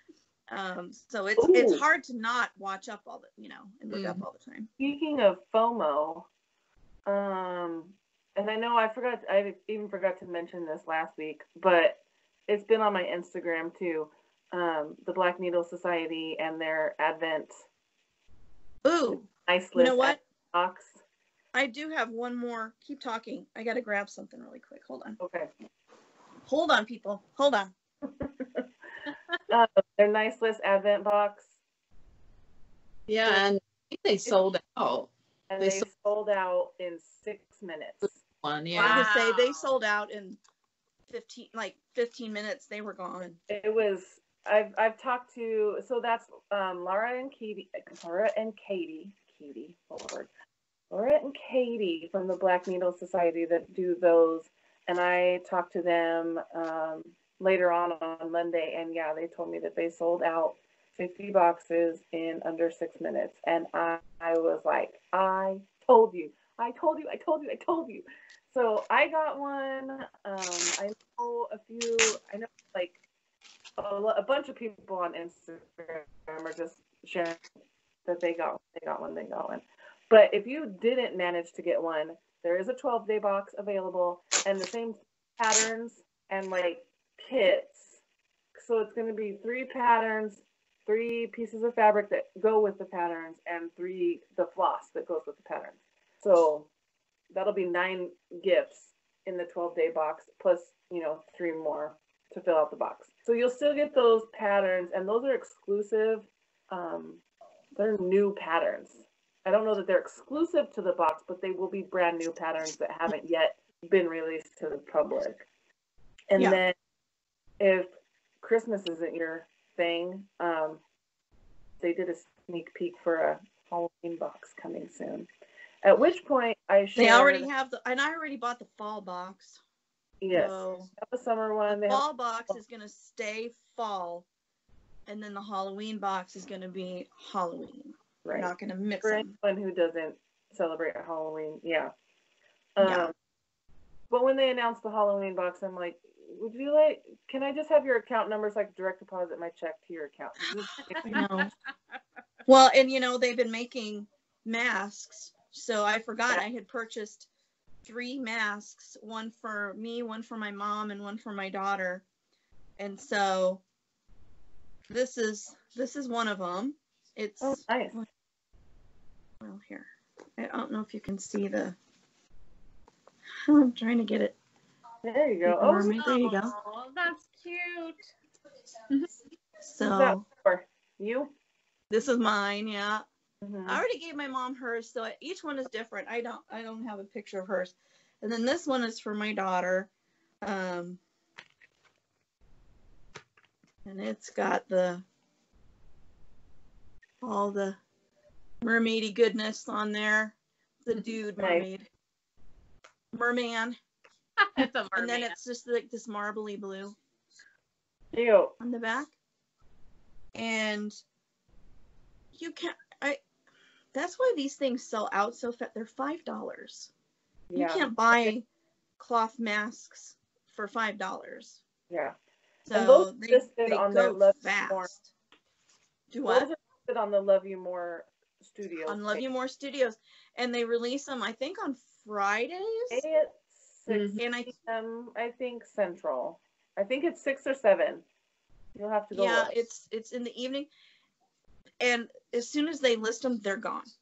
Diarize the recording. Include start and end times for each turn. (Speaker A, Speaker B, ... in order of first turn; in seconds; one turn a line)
Speaker A: 0.5-4.7
Speaker B: 1.4-1.8
Speaker C: 3.9-4.2
Speaker B: 4.8-6.3
Speaker B: 7.1-17.6
Speaker A: 18.8-20.2
Speaker B: 19.1-21.0
Speaker A: 21.5-25.2
Speaker B: 25.2-25.5
Speaker A: 26.4-27.7
Speaker B: 28.2-28.6
Speaker B: 29.5-31.5
Speaker C: 33.1-35.9
Speaker B: 35.5-38.2
Speaker C: 38.4-39.1
Speaker A: 38.7-40.4
Speaker D: 38.8-39.7
Speaker A: 41.1-43.4
Speaker B: 43.5-50.3
Speaker B: 50.9-73.0
Speaker B: 73.8-77.4
Speaker B: 78.1-88.0
Speaker B: 88.5-96.7
Speaker B: 97.3-107.2
Speaker B: 107.8-115.5
Speaker B: 116.3-116.8
Speaker B: 117.6-117.9
Speaker B: 118.4-120.8
Speaker B: 121.8-125.3
Speaker B: 125.8-127.5
Speaker A: 127.0-129.6
Speaker B: 130.2-132.0
Speaker A: 130.3-130.9
Speaker A: 131.7-134.3
Speaker A: 135.1-139.3
Speaker B: 138.2-141.9
Speaker B: 142.8-143.1
Speaker A: 142.8-143.1
Speaker B: 144.1-151.3
Speaker A: 151.0-151.5
Speaker A: 152.5-157.3
Speaker A: 157.8-162.0
Speaker A: 162.8-163.6
Speaker A: 164.9-168.1
Speaker B: 167.4-168.0
Speaker A: 169.4-171.8
Speaker A: 173.5-174.4
Speaker B: 175.0-175.9
Speaker A: 175.5-176.6
Speaker D: 175.9-178.1
Speaker A: 179.6-180.2
Speaker B: 179.8-181.3
Speaker A: 181.9-183.1
Speaker B: 183.4-183.8
Speaker A: 183.7-189.9
Speaker A: 190.4-191.0
Speaker A: 193.9-195.1
Speaker A: 197.2-197.8
Speaker A: 198.6-201.9
Speaker B: 201.4-201.7
Speaker A: 203.1-203.8
Speaker D: 204.4-205.3
Speaker A: 204.9-207.0
Speaker B: 208.1-208.5
Speaker A: 208.6-209.1
Speaker A: 210.3-211.0
Speaker A: 212.3-213.2
Speaker A: 213.9-216.9
Speaker B: 217.5-218.3
Speaker A: 217.5-218.4
Speaker A: 219.0-221.6
Speaker A: 222.7-225.1
Speaker B: 222.7-224.9
Speaker A: 226.1-226.5
Speaker B: 226.2-229.2
Speaker A: 228.9-233.0
Speaker B: 232.9-238.0
Speaker C: 233.9-234.2
Speaker A: 234.2-234.5
Speaker B: 238.8-239.6
Speaker A: 239.1-240.7
Speaker A: 241.8-243.9